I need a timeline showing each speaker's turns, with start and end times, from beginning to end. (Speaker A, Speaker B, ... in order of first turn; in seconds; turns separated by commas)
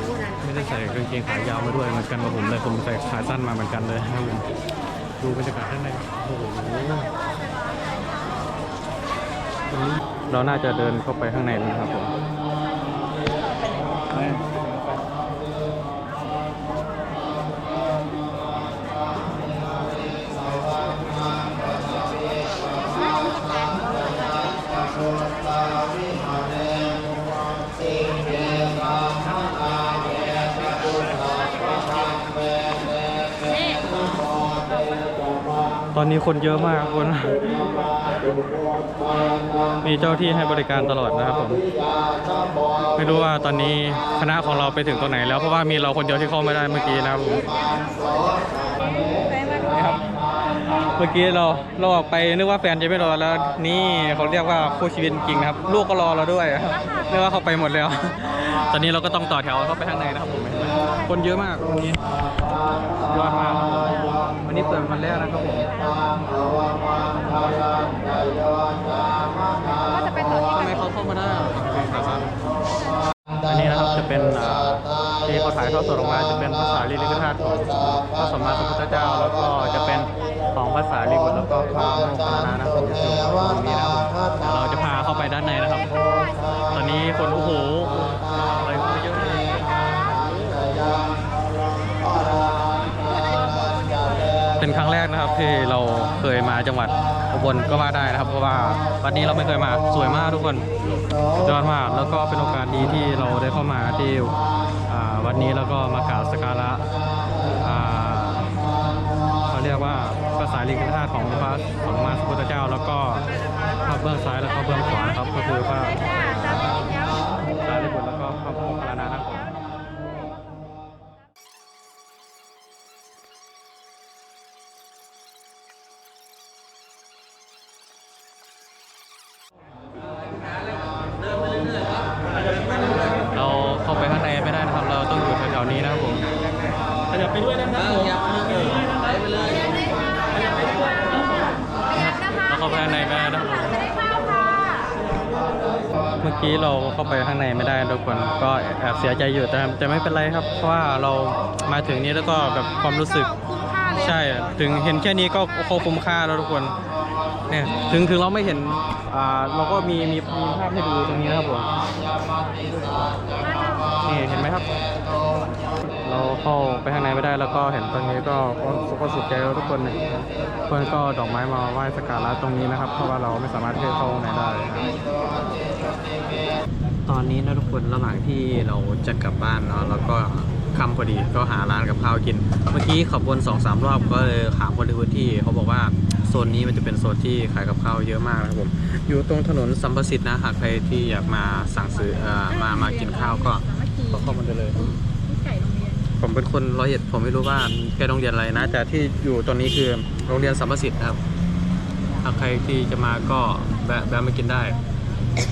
Speaker A: 0.4-4.5, Speaker A: 5.2-7.1, Speaker A: 9.7-12.1, Speaker A: 14.1-14.4, Speaker B: 23.0-23.6, Speaker A: 35.9-37.8, Speaker A: 39.8-41.6, Speaker A: 42.9-47.5, Speaker B: 48.6-49.4, Speaker A: 49.4-62.0, Speaker B: 60.8-61.1, Speaker A: 63.0-65.7, Speaker B: 65.7-68.3, Speaker B: 69.9-71.4, Speaker A: 70.4-72.3, Speaker B: 72.0-72.3, Speaker A: 73.5-85.9, Speaker A: 86.7-89.6, Speaker B: 93.1-94.4, Speaker A: 94.6-100.7, Speaker A: 101.4-104.3, Speaker A: 104.8-106.8, Speaker A: 107.6-108.5, Speaker A: 109.5-113.2, Speaker A: 113.8-119.5, Speaker A: 133.3-136.3, Speaker A: 137.1-138.7, Speaker A: 141.9-143.8, Speaker A: 146.2-153.3, Speaker B: 153.4-153.9, Speaker A: 153.9-156.8, Speaker A: 157.5-161.7, Speaker B: 163.4-164.0, Speaker A: 164.0-164.7, Speaker A: 166.0-170.0, Speaker A: 170.7-174.9, Speaker A: 177.1-194.9, Speaker B: 192.4-194.3, Speaker B: 195.2-196.1, Speaker A: 196.2-201.2, Speaker A: 202.2-204.8